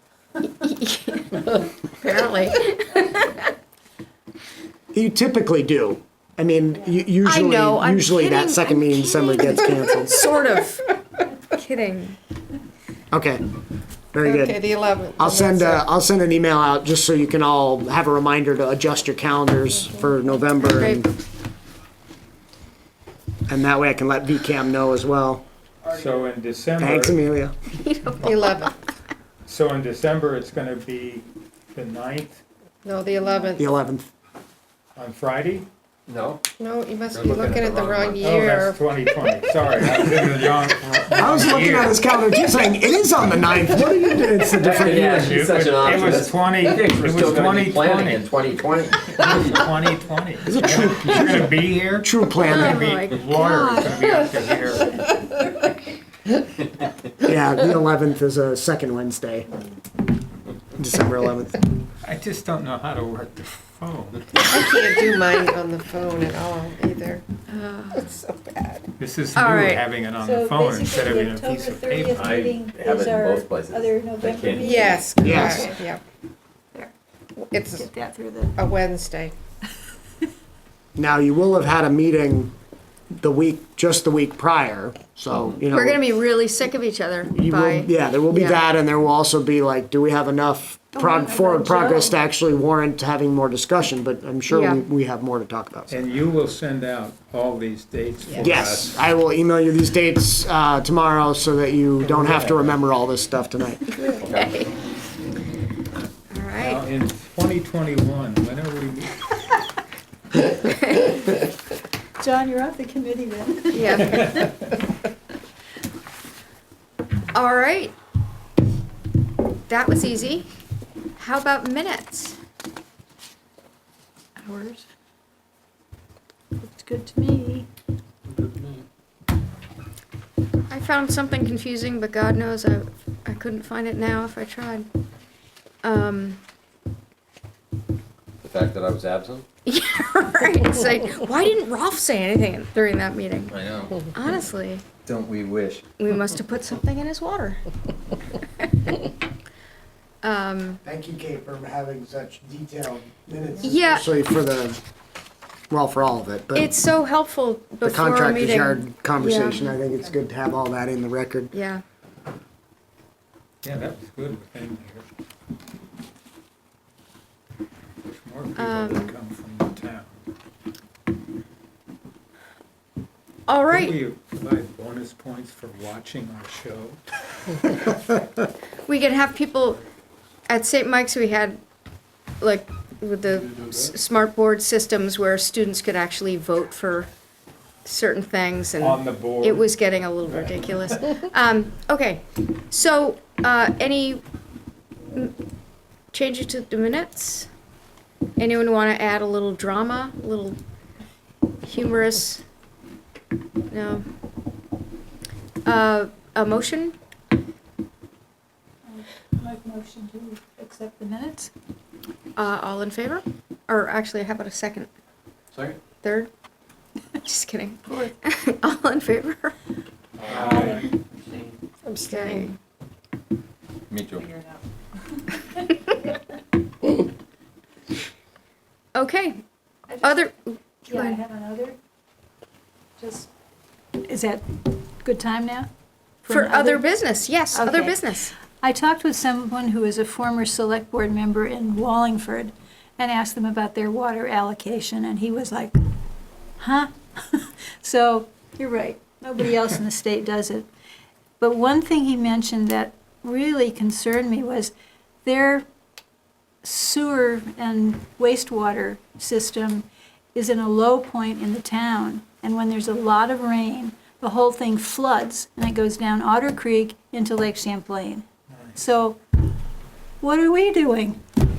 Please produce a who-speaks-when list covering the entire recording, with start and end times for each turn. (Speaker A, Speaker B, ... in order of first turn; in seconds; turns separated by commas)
Speaker A: 0.6-3.4, Speaker B: 4.9-10.3, Speaker A: 7.2-10.8, Speaker A: 11.5-12.2, Speaker B: 13.1-13.4, Speaker B: 14.1-14.6, Speaker C: 14.2-15.8, Speaker B: 15.2-21.1, Speaker A: 20.6-21.1, Speaker B: 23.5-25.4, Speaker D: 25.9-27.2, Speaker B: 26.8-27.5, Speaker A: 27.8-28.7, Speaker C: 28.2-28.7, Speaker D: 29.5-32.4, Speaker C: 32.9-33.7, Speaker B: 33.6-34.1, Speaker D: 35.0-35.7, Speaker E: 36.1-36.4, Speaker C: 36.6-38.8, Speaker E: 37.1-38.3, Speaker D: 38.2-42.0, Speaker B: 41.2-45.3, Speaker E: 44.6-49.6, Speaker D: 44.8-48.4, Speaker D: 49.0-55.0, Speaker B: 50.5-52.9, Speaker A: 52.5-53.7, Speaker B: 57.2-59.5, Speaker B: 60.8-61.6, Speaker D: 62.0-64.4, Speaker A: 64.4-64.8, Speaker C: 64.4-67.2, Speaker A: 67.5-68.1, Speaker C: 67.9-68.9, Speaker D: 69.0-72.3, Speaker A: 69.3-69.9, Speaker F: 70.2-75.8, Speaker E: 72.1-74.8, Speaker C: 74.6-76.0, Speaker B: 75.2-75.7, Speaker C: 77.4-77.9, Speaker F: 77.7-78.7, Speaker C: 78.6-79.3, Speaker B: 81.0-82.5, Speaker B: 83.2-86.1, Speaker A: 85.7-88.6, Speaker B: 87.2-96.0, Speaker F: 90.9-92.2, Speaker A: 94.5-94.8, Speaker D: 95.9-99.0, Speaker B: 98.4-104.0, Speaker D: 102.0-102.8, Speaker A: 104.0-104.7, Speaker E: 104.0-104.7, Speaker A: 106.3-106.8, Speaker D: 106.6-109.3, Speaker F: 112.2-114.5, Speaker A: 113.7-114.3, Speaker D: 114.1-114.5, Speaker A: 117.3-117.9, Speaker A: 119.7-120.5, Speaker A: 121.2-122.4, Speaker F: 124.4-124.8, Speaker F: 126.6-127.7, Speaker E: 128.3-128.8, Speaker A: 130.7-134.9, Speaker A: 135.8-136.4, Speaker E: 138.4-139.5, Speaker A: 139.7-143.6, Speaker E: 143.5-144.1, Speaker A: 144.1-144.8, Speaker E: 145.1-145.8, Speaker A: 146.0-147.6, Speaker A: 150.2-150.8, Speaker B: 150.8-154.8, Speaker A: 153.6-154.1, Speaker B: 155.7-156.7, Speaker A: 156.6-159.8, Speaker B: 157.8-161.5, Speaker A: 161.5-161.8, Speaker D: 163.6-165.1, Speaker D: 168.1-170.2, Speaker A: 168.6-169.2, Speaker A: 173.5-173.9, Speaker D: 173.7-177.0, Speaker D: 177.7-177.9, Speaker A: 178.9-179.8, Speaker A: 180.5-181.6, Speaker A: 182.4-187.1, Speaker A: 187.8-194.2, Speaker D: 188.8-189.7, Speaker D: 190.3-190.6, Speaker A: 196.1-197.5, Speaker A: 198.4-200.6, Speaker A: 201.6-202.4, Speaker A: 203.7-204.0, Speaker A: 205.7-206.9, Speaker F: 208.9-211.5, Speaker A: 212.4-214.9, Speaker E: 215.5-215.8, Speaker A: 216.0-216.3, Speaker A: 217.2-219.5, Speaker E: 220.2-221.6, Speaker F: 220.4-220.9, Speaker C: 221.8-222.5, Speaker A: 222.1-222.5, Speaker E: 223.9-224.3, Speaker A: 228.9-229.4, Speaker F: 229.9-230.2, Speaker A: 230.0-231.2, Speaker F: 230.9-231.8, Speaker F: 233.0-233.3, Speaker F: 234.0-235.7, Speaker F: 236.2-236.8, Speaker A: 236.3-238.3, Speaker F: 237.5-238.0, Speaker F: 238.6-245.8, Speaker F: 246.6-250.7, Speaker F: 251.4-254.7, Speaker F: 255.2-255.7, Speaker F: 256.6-269.2, Speaker F: 270.2-271.2